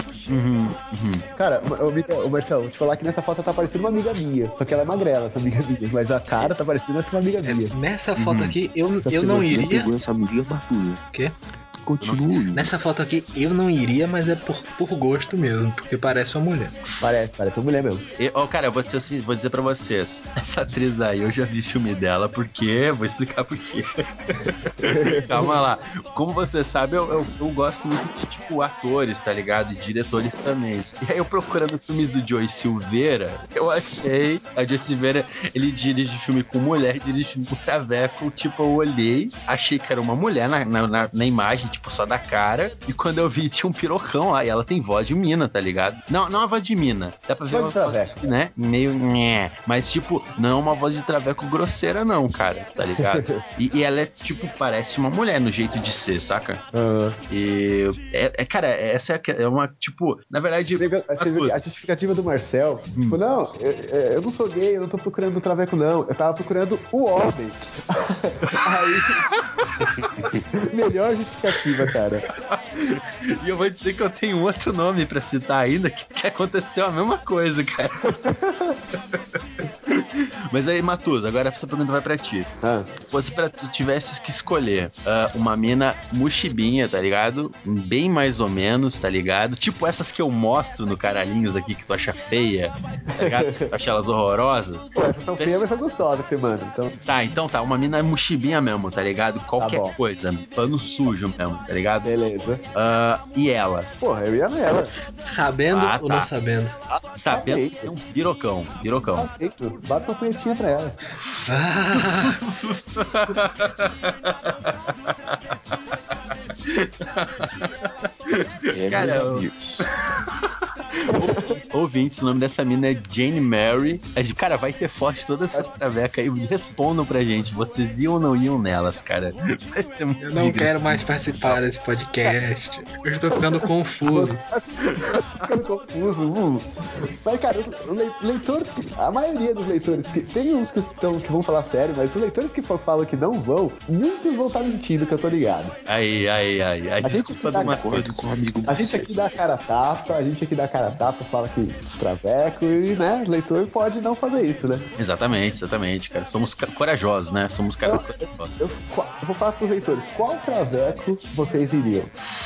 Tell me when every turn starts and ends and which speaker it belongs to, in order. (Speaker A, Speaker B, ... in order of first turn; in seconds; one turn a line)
Speaker A: 0.3-1.2
Speaker B: 1.3-7.8
Speaker C: 7.4-9.9
Speaker A: 8.2-8.6
Speaker D: 9.2-11.0
Speaker D: 11.8-12.7
Speaker A: 12.0-12.3
Speaker C: 12.5-16.8
Speaker B: 17.0-18.1
Speaker A: 18.2-56.6
Speaker B: 24.8-25.6
Speaker B: 47.5-48.3
Speaker B: 53.0-53.4
Speaker B: 56.7-57.2
Speaker A: 57.3-61.6
Speaker B: 60.8-69.2
Speaker A: 69.4-70.3
Speaker B: 70.6-72.3
Speaker A: 72.4-78.2
Speaker B: 78.2-78.8
Speaker A: 79.9-82.5
Speaker B: 82.6-82.9
Speaker A: 83.1-95.8
Speaker B: 93.2-93.7
Speaker B: 95.0-97.0
Speaker A: 97.1-102.1
Speaker B: 99.6-100.0
Speaker B: 102.0-102.6
Speaker A: 102.8-103.9
Speaker B: 104.0-105.0
Speaker C: 105.2-106.8
Speaker A: 105.7-106.3
Speaker B: 106.9-107.9
Speaker A: 107.2-109.3
Speaker B: 109.2-111.0
Speaker C: 111.5-112.4
Speaker A: 112.0-116.0
Speaker A: 116.7-119.5
Speaker D: 118.7-119.9
Speaker A: 120.0-131.6
Speaker B: 121.1-121.6
Speaker C: 130.2-134.4
Speaker B: 134.1-136.7
Speaker A: 134.9-135.5
Speaker B: 137.2-145.8
Speaker A: 145.9-148.1
Speaker B: 147.0-147.8
Speaker D: 147.2-149.2
Speaker B: 148.7-154.9
Speaker A: 155.0-158.5
Speaker B: 157.8-162.1